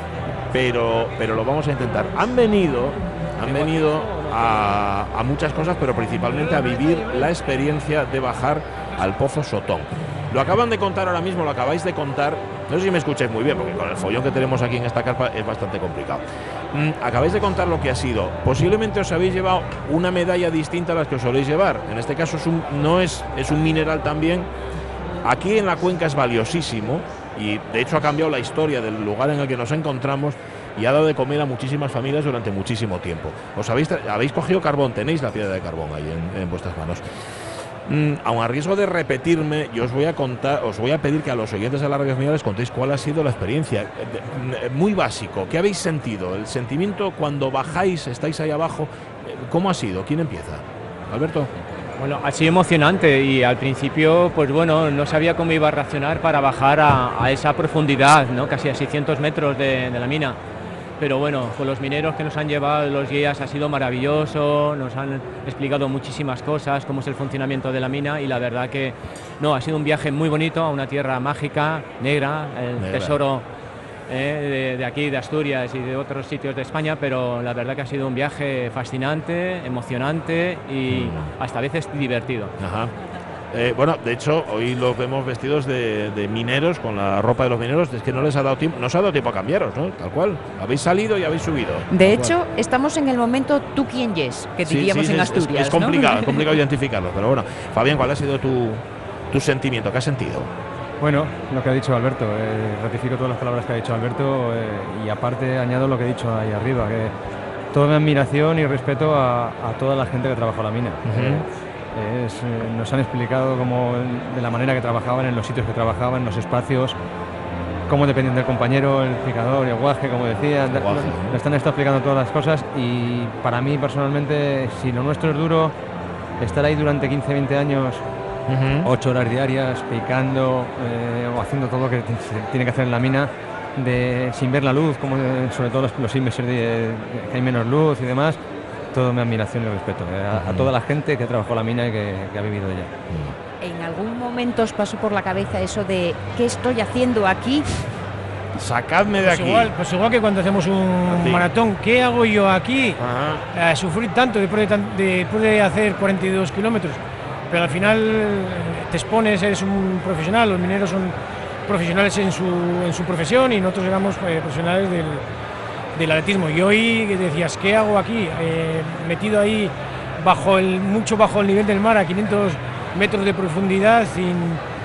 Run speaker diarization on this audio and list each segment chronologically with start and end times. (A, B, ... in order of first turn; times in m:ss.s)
0:00.5-0:24.5 A
0:25.2-0:51.5 A
0:52.0-1:00.4 B
1:01.0-1:13.5 B
1:12.8-1:13.2 A
1:14.1-1:22.5 B
1:20.9-1:21.3 A
1:22.6-1:22.9 A
1:23.5-1:32.4 A
1:31.9-1:36.5 C
1:34.6-1:40.5 A
1:41.0-1:47.1 D
1:47.7-1:57.0 D
1:51.0-1:51.5 A
1:57.9-2:05.8 D
2:00.7-2:01.4 A
2:06.4-2:08.0 D
2:08.5-2:08.9 A
2:08.8-2:18.4 D
2:18.9-2:22.9 D
2:20.3-2:20.7 A
2:23.1-2:23.4 A
2:23.6-2:27.7 C
2:28.6-2:29.7 A
2:29.2-2:33.0 E
2:31.1-2:31.5 A
2:33.0-2:33.4 A
2:33.5-2:37.0 E
2:37.5-2:41.2 E
2:41.7-2:45.2 E
2:46.0-2:54.6 E